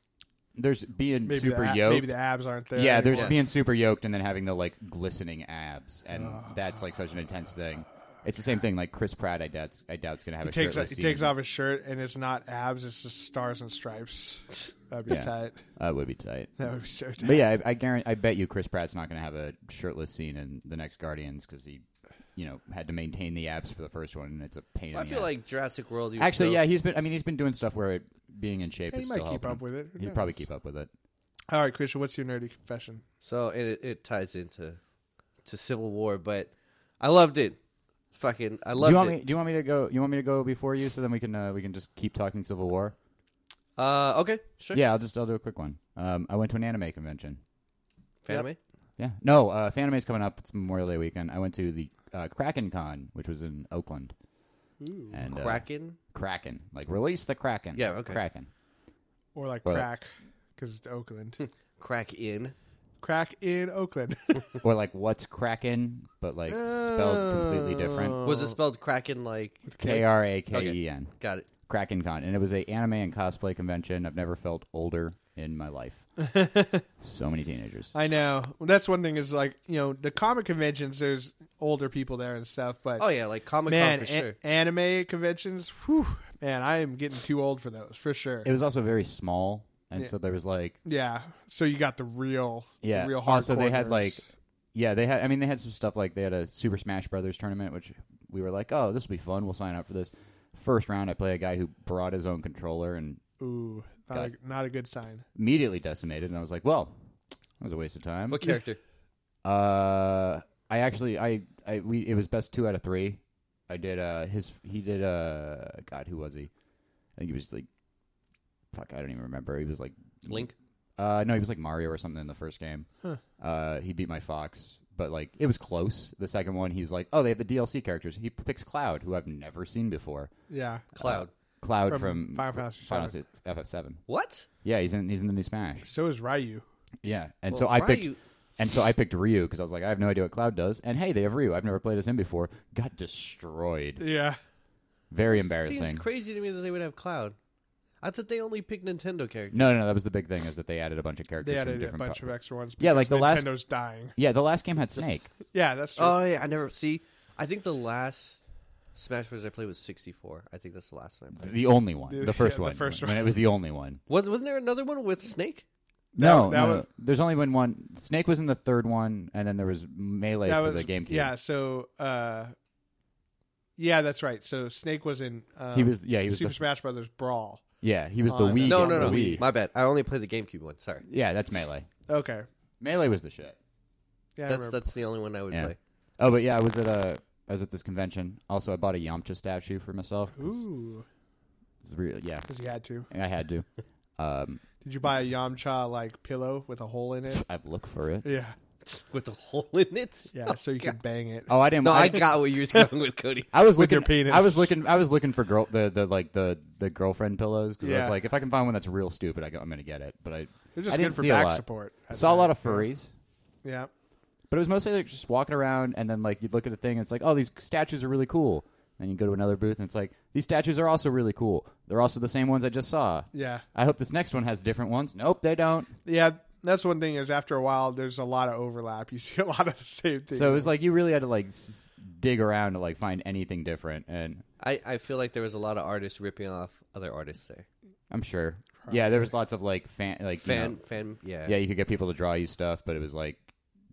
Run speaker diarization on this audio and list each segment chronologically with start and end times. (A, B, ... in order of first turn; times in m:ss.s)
0:00.5-0:02.1 A
0:01.2-0:03.3 B
0:02.7-0:11.3 A
0:06.1-0:06.5 B
0:10.4-0:15.6 B
0:15.1-0:16.6 A
0:16.6-0:17.4 B
0:17.2-0:21.8 A
0:22.4-0:25.3 A
0:24.9-0:26.6 C
0:26.2-0:30.9 A
0:28.9-0:30.3 B
0:31.5-0:33.0 B
0:33.2-0:34.8 C
0:35.4-0:37.6 C
0:38.1-0:39.2 C
0:38.8-0:42.9 A
0:43.8-0:44.8 C
0:44.7-0:47.4 A
0:48.2-0:48.6 C
0:49.0-0:54.1 A
0:54.8-0:55.2 B
0:55.1-0:58.5 A
0:55.3-0:56.0 C
0:57.7-0:58.2 C
0:59.3-1:01.4 B
1:01.4-1:02.5 C
1:03.0-1:04.5 B
1:04.6-1:08.2 A
1:06.5-1:08.6 B
1:08.2-1:09.7 C
1:09.7-1:10.0 B
1:09.8-1:11.1 A
1:10.5-1:11.5 C
1:11.7-1:16.0 A
1:16.2-1:16.8 B
1:17.0-1:17.9 A
1:17.9-1:23.0 B
1:23.0-1:24.4 C
1:23.7-1:28.5 B
1:28.4-1:30.8 A
1:30.8-1:34.2 B
1:32.8-1:34.2 A
1:34.7-1:43.2 A
1:43.4-1:45.2 B
1:45.3-1:46.9 A
1:47.6-1:48.4 A
1:48.3-1:48.8 C
1:49.4-1:56.5 A
1:57.2-1:57.7 A
1:58.7-2:02.9 A
2:00.3-2:00.5 C
2:03.4-2:10.3 A
2:10.5-2:10.8 B
2:10.9-2:11.3 C
2:11.0-2:14.0 A
2:11.9-2:13.2 B
2:14.1-2:14.5 C
2:14.6-2:15.9 A
2:15.8-2:16.6 B
2:17.0-2:24.0 A
2:17.5-2:18.2 C
2:24.0-2:24.4 B
2:25.1-2:26.0 A
2:25.3-2:27.3 C
2:28.0-2:29.7 C
2:29.5-2:33.5 A
2:31.4-2:34.1 B
2:34.2-2:35.3 A
2:35.5-2:36.2 B
2:36.0-2:38.4 C
2:38.9-2:41.5 C
2:41.4-2:44.0 A
2:42.1-2:43.4 B
2:44.1-2:45.6 C
2:46.1-2:46.8 B
2:46.2-2:51.3 A
2:50.4-2:52.5 B
2:53.8-2:57.6 B
2:55.7-2:56.6 A
2:57.8-2:59.4 A
2:58.2-2:59.4 B
2:58.6-3:01.0 C
3:01.0-3:01.9 A
3:02.1-3:02.4 B
3:02.8-3:03.6 A
3:04.4-3:04.8 B
3:04.4-3:05.8 C
3:05.5-3:10.6 A
3:10.4-3:11.0 B
3:11.8-3:12.5 A
3:12.5-3:13.1 B
3:13.1-3:13.6 A
3:14.2-3:14.6 A
3:14.8-3:17.4 B
3:17.3-3:18.3 A
3:18.2-3:18.5 B
3:18.8-3:20.9 C
3:20.3-3:21.5 B
3:21.5-3:22.3 A
3:21.8-3:23.5 C
3:23.5-3:33.1 A
3:23.7-3:24.7 B
3:27.8-3:28.2 B
3:30.7-3:32.9 B
3:33.6-3:33.9 B
3:34.5-3:45.9 A
3:43.3-3:43.6 B
3:46.0-3:50.7 B
3:50.3-3:54.4 A
3:54.6-3:57.6 C
3:58.1-4:00.8 A
3:58.8-3:59.2 B
4:00.4-4:01.5 C
4:01.4-4:03.4 A